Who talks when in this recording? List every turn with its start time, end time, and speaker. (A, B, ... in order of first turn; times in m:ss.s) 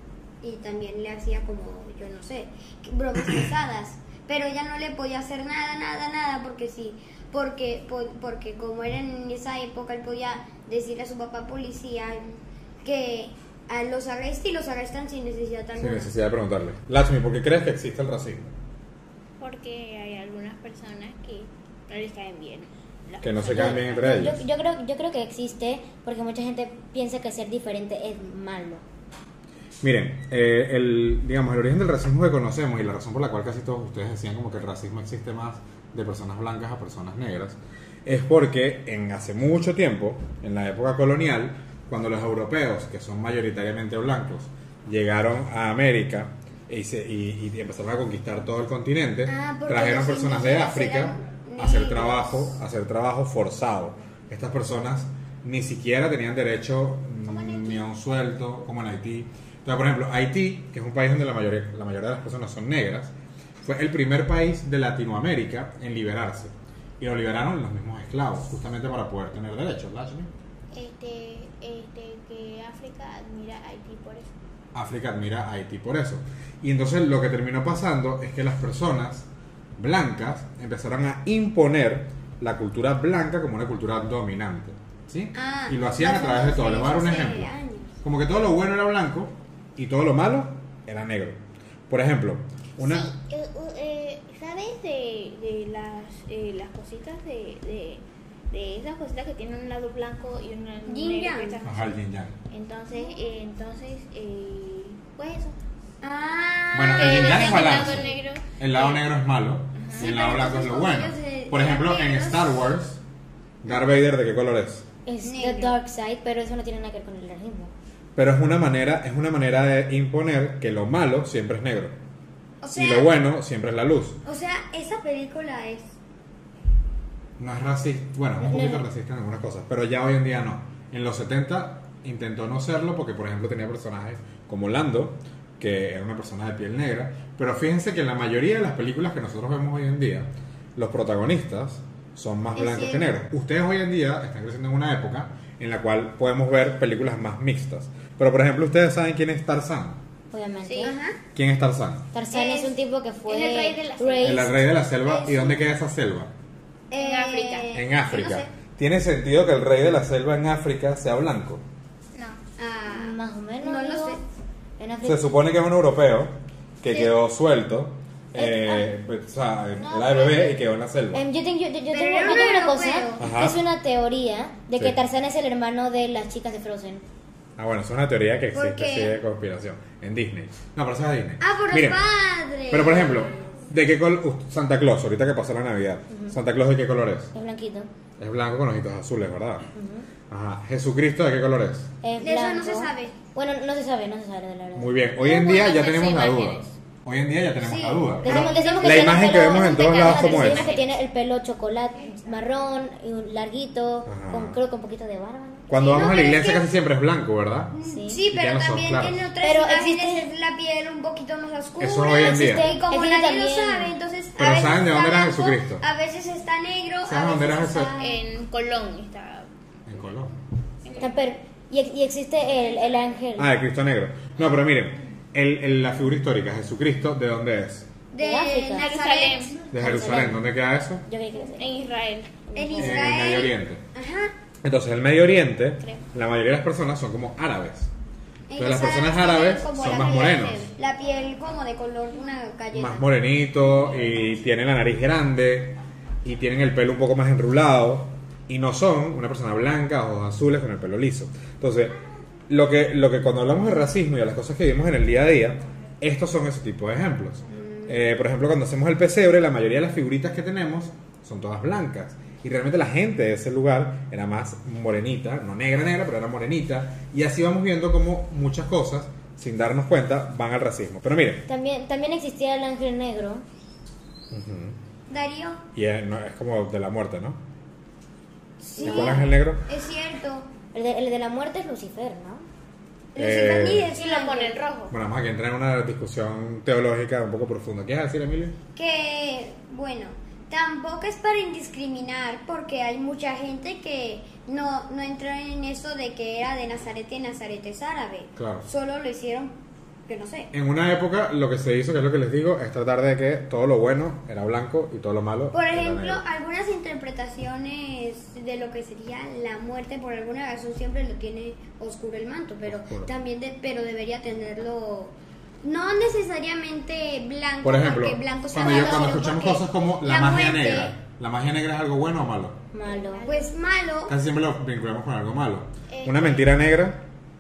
0:00.4-0:16.1 A
0:15.8-0:18.5 B
0:19.4-0:24.0 C
0:23.2-0:24.4 B
0:23.5-0:28.8 D
0:29.8-1:10.3 B
0:49.3-0:52.5 A
0:57.4-0:57.8 A
1:10.7-1:14.3 C
1:14.7-1:27.5 B
1:25.3-1:28.0 A
1:28.0-1:33.1 B
1:32.8-1:41.9 C
1:40.9-1:41.6 A
1:41.6-1:42.4 B
1:42.5-1:45.6 C
1:46.0-1:48.0 A
1:46.7-1:53.0 B
1:47.0-1:49.0 C
1:49.8-1:50.2 C
1:50.0-1:52.6 A
1:53.6-1:54.9 B
1:55.1-1:57.7 D
1:55.2-1:55.8 A
1:58.2-2:02.0 B
2:02.6-2:03.1 A
2:02.8-2:04.2 B
2:04.2-2:06.0 A
2:07.4-2:30.0 B
2:08.4-2:08.8 D
2:22.6-2:23.2 A
2:30.3-2:31.0 D
2:30.6-2:31.0 C
2:30.8-2:31.2 A
2:31.4-2:32.1 B
2:32.1-2:34.6 D
2:32.3-2:32.8 A
2:33.3-2:34.5 C
2:34.2-2:36.3 B
2:35.0-2:35.7 A
2:36.9-2:38.5 A
2:37.0-2:37.7 C
2:37.7-2:41.6 B
2:42.1-2:42.4 C
2:42.6-2:44.2 A
2:42.9-2:44.2 D
2:44.8-2:45.3 D
2:45.0-2:51.2 B
2:48.4-2:48.9 D
2:49.8-2:50.6 C
2:51.1-2:57.0 D
2:51.9-2:53.2 A
2:53.2-2:53.6 B
2:57.6-3:02.0 B
2:58.5-2:59.2 A
3:01.4-3:03.4 A
3:02.7-3:07.3 B
3:06.1-3:06.4 D
3:07.3-3:07.9 D
3:08.2-3:09.7 B
3:09.8-3:10.1 D
3:10.3-3:11.9 B
3:12.0-3:15.0 D
3:12.2-3:13.2 A
3:14.8-3:20.8 B
3:15.2-3:16.7 C
3:17.6-3:19.4 A
3:18.2-3:26.0 D
3:18.3-3:21.0 C
3:24.1-3:24.6 B
3:25.7-3:27.8 B
3:25.8-3:26.7 A
3:27.7-3:38.2 A
3:27.8-3:28.2 D
3:28.3-3:29.3 B
3:29.4-3:30.3 D
3:31.8-3:32.8 B
3:32.2-3:33.9 D
3:34.4-3:35.8 B
3:37.0-3:37.9 B
3:38.0-3:39.5 C
3:39.9-3:40.4 B
3:40.8-3:41.1 C
3:41.0-3:43.5 D
3:43.4-3:47.9 B
3:48.1-3:49.6 A
3:48.2-3:48.9 D
3:48.7-3:49.6 C
3:49.7-3:51.1 B
3:49.7-3:50.4 D
3:51.1-3:51.7 D
3:51.4-3:53.2 C
3:52.6-3:54.4 A
3:52.8-3:53.8 B
3:54.6-3:57.9 B
3:58.5-4:03.1 A
3:58.6-4:00.7 B
3:59.8-4:00.7 C
4:02.7-4:12.0 B
4:12.5-4:31.5 B
4:17.5-4:18.0 A
4:31.5-4:33.4 D
4:34.3-4:34.8 B
4:35.1-4:35.6 A
4:35.7-4:37.4 B
4:38.6-4:40.5 A
4:38.8-4:39.3 D
4:38.8-4:39.6 B
4:40.7-4:42.5 D
4:43.2-4:44.6 A
4:43.2-4:44.0 B
4:44.0-4:44.9 C
4:44.9-4:48.6 B
4:48.8-5:00.5 A
4:58.4-4:58.7 B
5:00.5-5:06.2 B
5:05.5-5:21.0 A
5:12.6-5:13.1 B
5:17.6-5:22.6 B
5:18.6-5:19.2 C
5:22.7-5:23.2 D
5:22.8-5:23.5 C
5:23.2-5:24.2 A
5:24.1-5:27.0 B
5:25.9-5:26.5 C